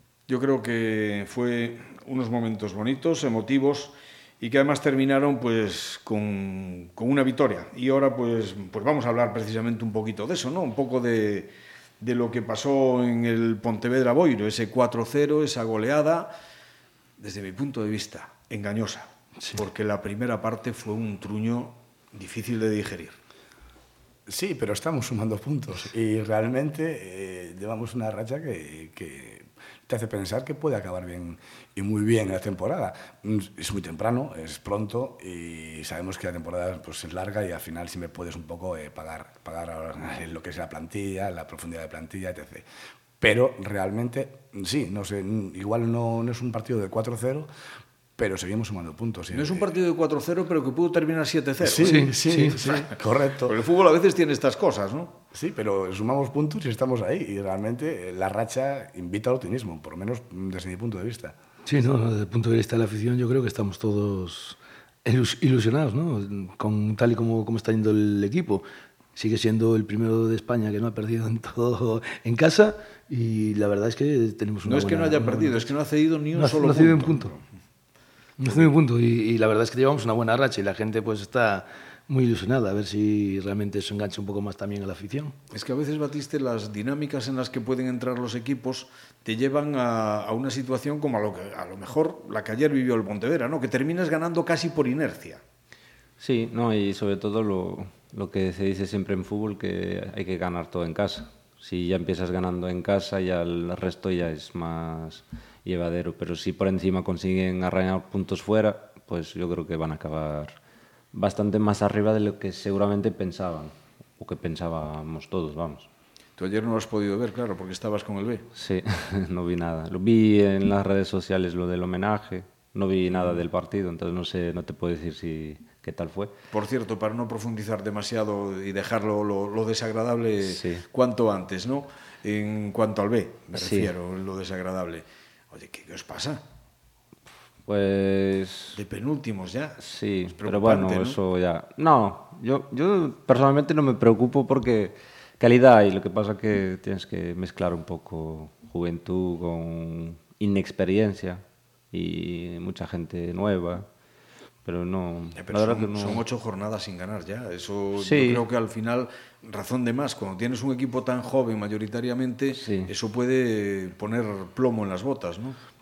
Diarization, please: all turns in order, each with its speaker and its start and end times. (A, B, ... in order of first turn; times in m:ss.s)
0:00.3-0:16.3 A
0:17.2-0:23.2 A
0:24.3-0:42.6 B
0:43.2-0:47.5 B
0:48.2-0:49.7 B
0:49.3-0:52.1 A
0:51.6-0:53.6 B
0:51.8-0:52.6 C
0:52.6-0:52.9 A
0:53.4-0:55.2 A
0:55.3-1:01.4 B
1:01.6-1:15.6 C
1:14.6-1:17.4 A
1:16.3-1:17.3 C
1:18.4-1:25.3 C
1:25.5-1:35.4 A
1:36.2-1:50.6 D
1:51.1-1:55.9 D
1:56.4-1:58.5 A
1:58.5-2:06.3 D
2:03.1-2:03.4 A
2:06.5-2:16.4 A
2:10.4-2:10.8 D
2:13.5-2:13.9 D
2:17.7-2:18.8 D
2:18.8-2:19.8 A
2:19.8-2:33.9 D
2:20.3-2:21.2 A
2:34.6-2:36.2 D
2:35.4-2:45.6 A
2:38.0-2:38.4 D
2:42.6-2:42.9 D